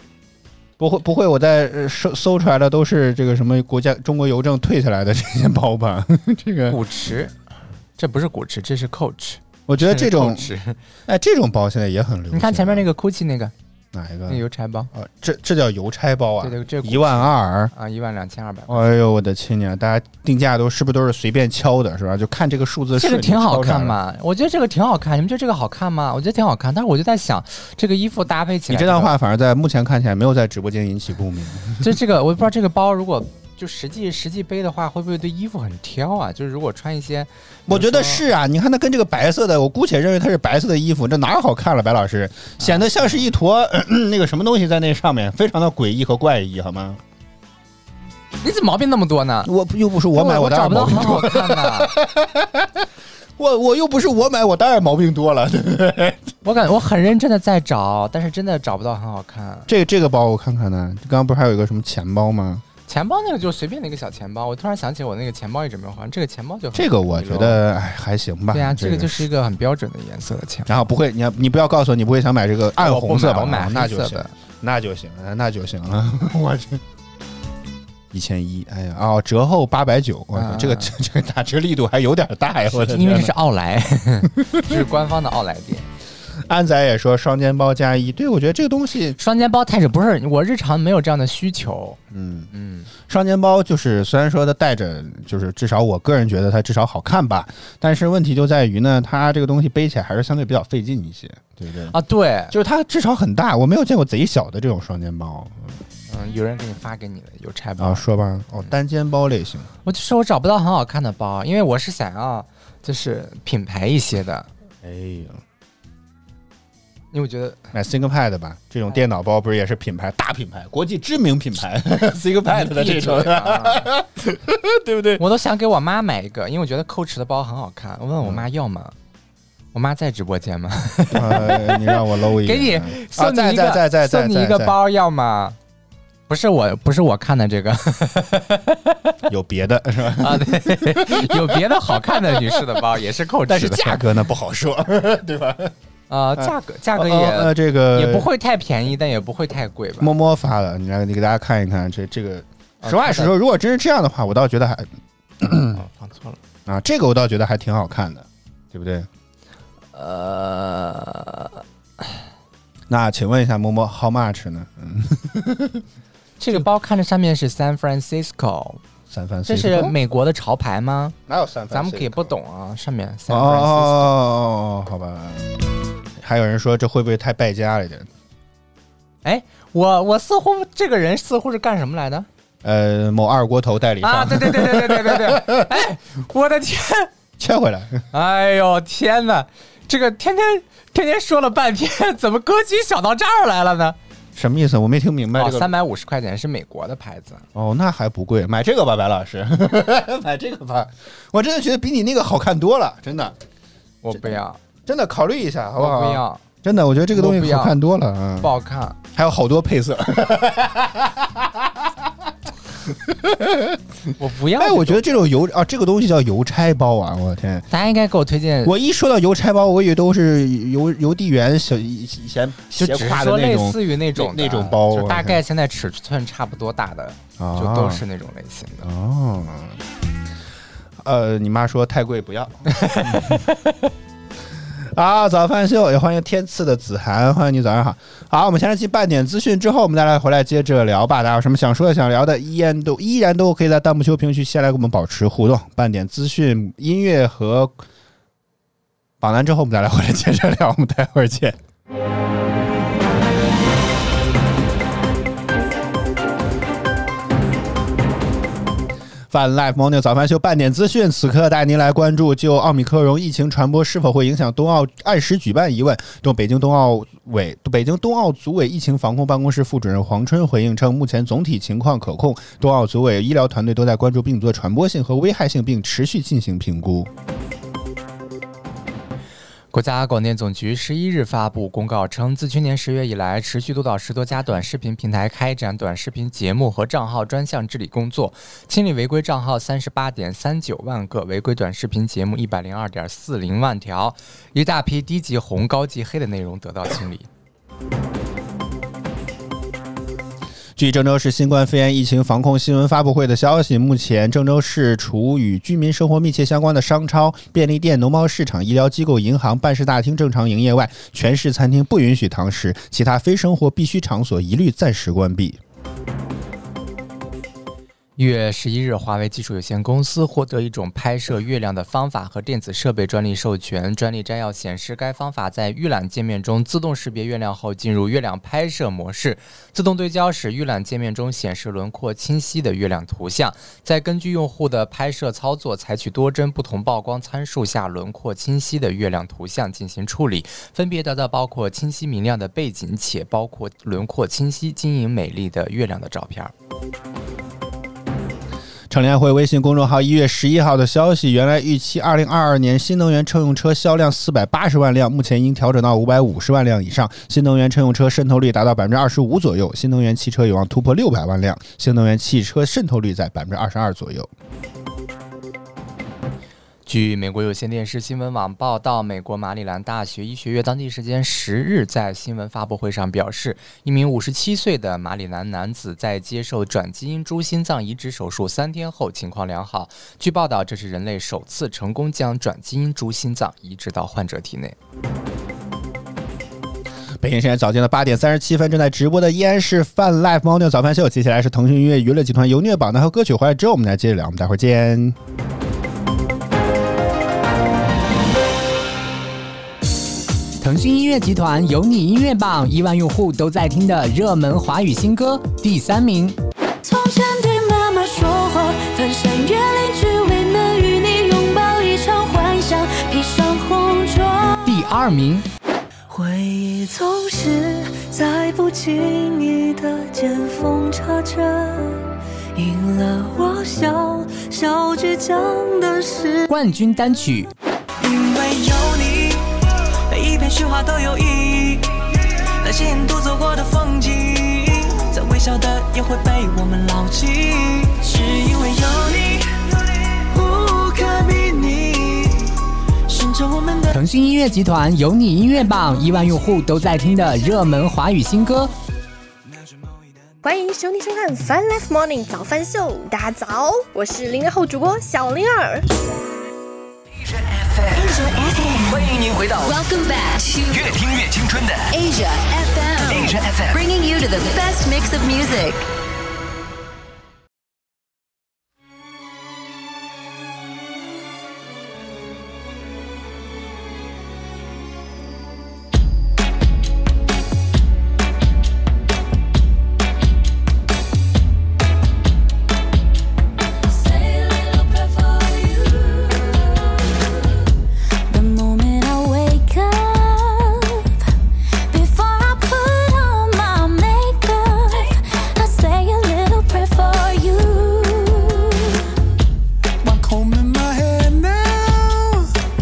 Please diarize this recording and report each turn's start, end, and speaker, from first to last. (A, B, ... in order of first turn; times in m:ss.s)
0:00.8-0:06.8 A
0:06.7-0:07.3 B
0:08.0-0:10.8 B
0:09.7-0:10.5 A
0:11.1-0:12.9 A
0:12.3-0:13.5 B
0:13.9-0:17.7 A
0:14.3-0:14.9 B
0:16.4-0:18.9 B
0:18.7-0:24.0 A
0:23.0-0:29.1 B
0:28.7-0:32.0 A
0:31.8-0:38.2 B
0:37.7-0:47.0 A
0:42.6-0:43.2 B
0:48.4-0:49.5 B
0:49.4-0:56.3 A
0:50.1-0:51.9 B
0:56.4-0:59.7 B
0:59.7-1:02.6 A
1:02.9-1:07.6 B
1:06.8-1:09.3 A
1:08.5-1:10.7 B
1:10.7-1:16.8 A
1:12.8-1:14.3 B
1:18.1-1:23.3 A
1:20.4-1:20.9 B
1:22.8-1:25.9 B
1:26.3-1:29.2 A
1:29.2-1:32.0 B
1:32.1-1:32.5 A
1:32.5-1:32.9 B
1:33.1-1:42.0 A
1:41.9-1:42.5 B
1:42.5-1:45.8 A
1:46.1-1:48.1 B
1:47.8-1:49.7 A
1:49.8-1:54.5 B
1:54.8-1:55.4 A
1:57.1-1:57.7 B
1:57.7-2:05.2 A
2:02.5-2:03.9 B
2:05.2-2:08.9 B
2:09.7-2:15.6 B
2:11.1-2:14.8 A
2:16.3-2:19.2 B
2:19.3-2:22.8 A
2:20.2-2:24.0 B
2:23.5-2:25.7 A
2:26.1-2:30.1 B
2:26.4-2:28.3 A
2:30.0-2:35.8 A
2:32.8-2:33.3 B
2:35.7-2:36.4 B
2:36.7-2:39.1 A
2:40.0-2:42.2 B
2:42.9-2:45.8 A
2:46.4-2:48.8 B
2:49.1-2:50.0 A
2:49.5-2:51.2 B
2:51.3-2:52.3 A
2:51.7-2:54.1 B
2:53.3-2:55.6 A
2:56.2-2:58.1 A
2:59.2-3:02.3 B
3:02.6-3:05.8 A
3:04.0-3:07.1 B
3:07.4-3:08.0 A
3:08.1-3:14.0 B
3:14.4-3:15.7 A
3:15.4-3:17.4 B
3:17.6-3:23.4 A
3:24.0-3:24.6 B
3:24.1-3:28.5 A
3:25.8-3:26.4 B
3:27.1-3:27.8 B
3:28.4-3:29.0 B
3:29.1-3:31.9 A
3:32.9-3:37.7 A
3:34.2-3:35.1 B
3:37.7-3:38.7 B
3:38.6-3:45.4 A
3:42.8-3:48.9 B
3:47.4-3:48.0 A
3:48.8-3:49.8 A
3:51.0-3:53.4 A
3:52.7-3:53.5 B
3:54.7-4:07.8 A
4:09.2-4:11.6 A
4:19.3-4:37.1 A
4:39.7-4:57.3 B
5:00.8-5:15.6 A
5:18.2-5:46.5 B
5:48.9-6:04.3 A
6:06.9-6:24.8 B
6:27.2-6:35.2 A
6:40.6-6:46.4 C
6:46.8-6:54.7 D
6:54.6-6:55.4 C
6:56.1-7:06.5 D
7:06.5-7:07.5 C
7:08.0-7:09.5 E
7:10.1-7:11.9 E
7:12.6-7:19.6 E
7:20.2-7:22.5 E
7:23.1-7:24.0 E
7:23.9-7:28.7 C
7:30.4-7:35.9 F
7:37.9-7:39.5 E
7:39.2-7:39.6 G
7:39.6-7:41.2 H
7:40.8-7:41.7 G
7:41.9-7:45.9 H
7:43.1-7:43.7 G
8:03.8-8:07.2 D
8:08.3-8:11.1 D
8:11.9-8:19.0 D
8:20.0-8:22.5 E